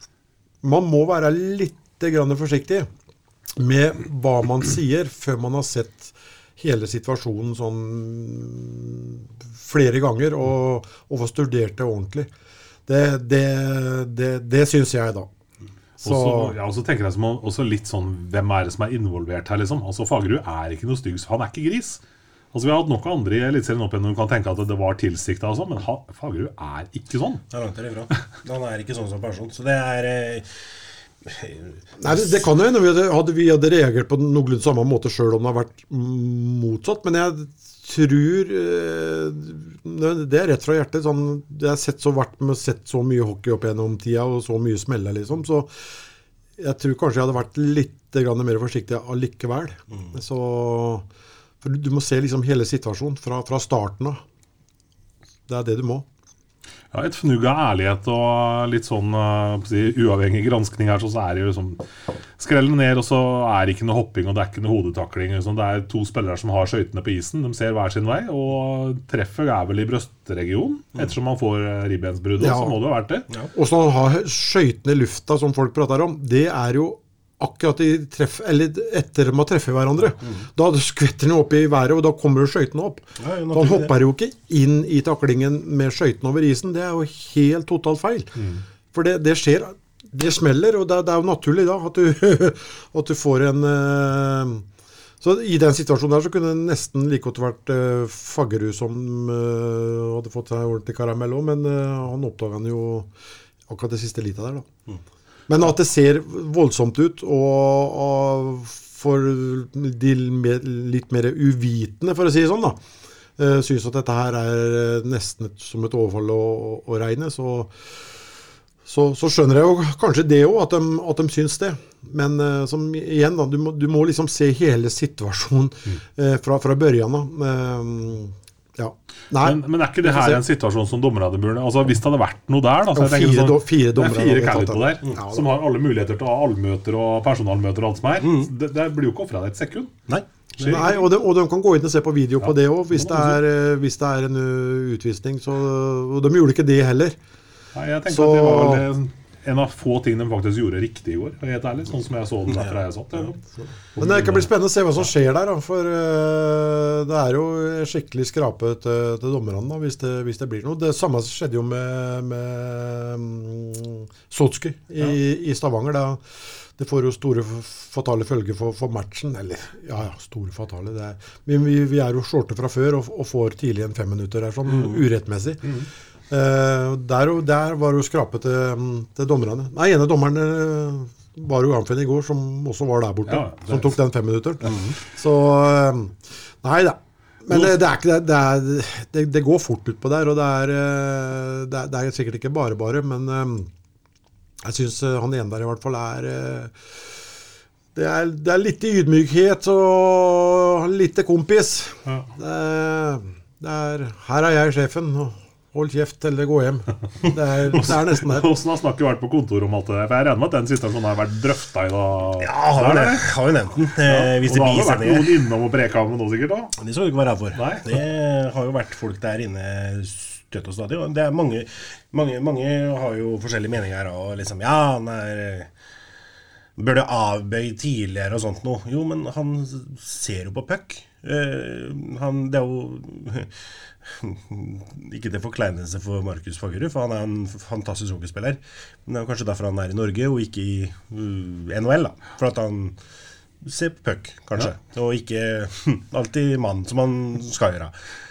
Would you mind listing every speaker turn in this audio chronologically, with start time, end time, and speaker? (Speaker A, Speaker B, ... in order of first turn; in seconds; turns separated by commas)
Speaker A: 0.6-2.9, Speaker A: 3.5-12.3, Speaker A: 12.9-15.3, Speaker A: 16.0-16.6, Speaker B: 16.0-22.0, Speaker B: 22.5-27.4, Speaker C: 27.5-30.4, Speaker C: 31.2-32.1, Speaker A: 32.0-45.7, Speaker A: 46.6-51.0, Speaker A: 51.6-54.2, Speaker A: 55.5-56.0, Speaker B: 56.9-61.8, Speaker B: 62.4-73.3, Speaker A: 72.4-72.8, Speaker A: 73.5-88.4, Speaker C: 80.2-80.5, Speaker C: 83.2-84.0, Speaker A: 88.9-94.7, Speaker A: 95.2-103.1, Speaker A: 103.7-104.7, Speaker A: 105.5-112.8, Speaker A: 113.4-117.9, Speaker A: 118.8-130.4, Speaker B: 129.4-139.9, Speaker A: 132.9-135.5, Speaker C: 138.2-138.5, Speaker C: 140.1-140.8, Speaker B: 140.6-141.0, Speaker A: 140.6-147.2, Speaker B: 142.4-143.4, Speaker B: 147.7-153.4, Speaker A: 148.1-148.8, Speaker C: 152.5-153.3, Speaker B: 153.9-154.5, Speaker A: 153.9-166.2, Speaker A: 166.8-175.7, Speaker A: 176.3-193.7, Speaker B: 183.3-183.9, Speaker A: 194.6-196.8, Speaker A: 197.9-208.5, Speaker B: 207.8-213.3, Speaker C: 212.4-215.3, Speaker B: 214.0-216.8, Speaker C: 216.8-225.7, Speaker B: 217.5-218.0, Speaker C: 226.8-233.5, Speaker C: 234.0-243.0, Speaker C: 243.6-247.9